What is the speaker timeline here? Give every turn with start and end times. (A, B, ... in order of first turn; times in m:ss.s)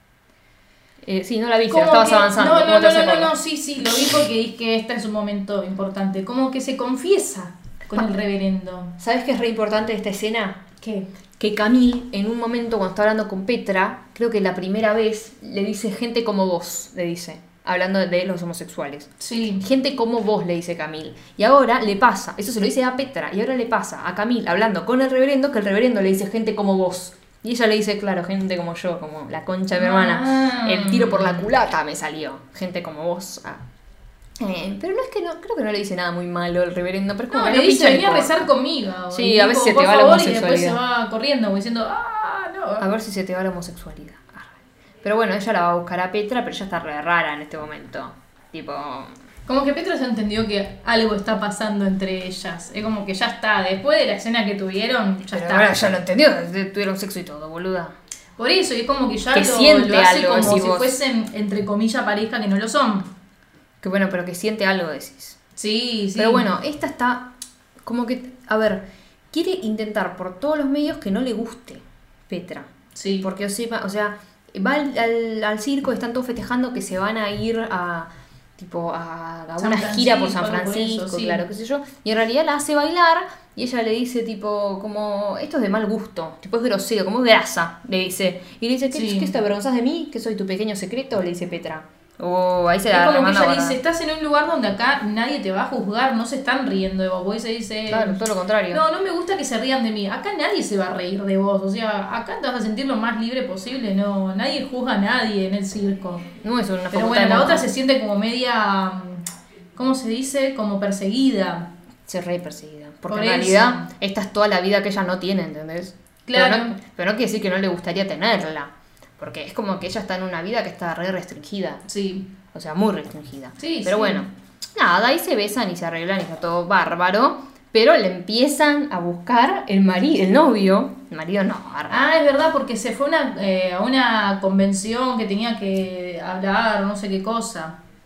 0:01.0-0:03.3 A
0:01.7-0:09.0 B
0:09.0-0:10.7 A
0:10.8-0:11.1 B
0:11.4-0:33.6 A
0:19.2-0:19.6 B
0:29.8-0:31.5 B
0:34.4-0:38.5 A
0:37.3-0:42.9 B
0:39.1-0:40.8 A
0:42.8-0:49.1 A
0:49.5-0:56.0 B
0:55.3-0:58.0 A
0:58.4-1:03.1 B
0:59.3-1:01.0 A
1:03.8-1:05.4 A
1:05.6-1:06.5 B
1:06.2-1:07.3 A
1:07.9-1:33.8 A
1:13.0-1:13.3 B
1:19.6-1:21.4 B
1:28.9-1:29.4 B
1:32.9-1:38.2 B
1:37.9-1:38.8 A
1:38.7-1:46.3 B
1:46.4-1:47.7 A
1:46.9-1:51.7 B
1:52.1-2:01.8 A
1:53.1-1:53.9 B
1:56.3-1:56.8 B
2:01.9-2:02.3 B
2:02.5-2:12.1 A
2:03.6-2:04.2 B
2:11.9-2:17.8 B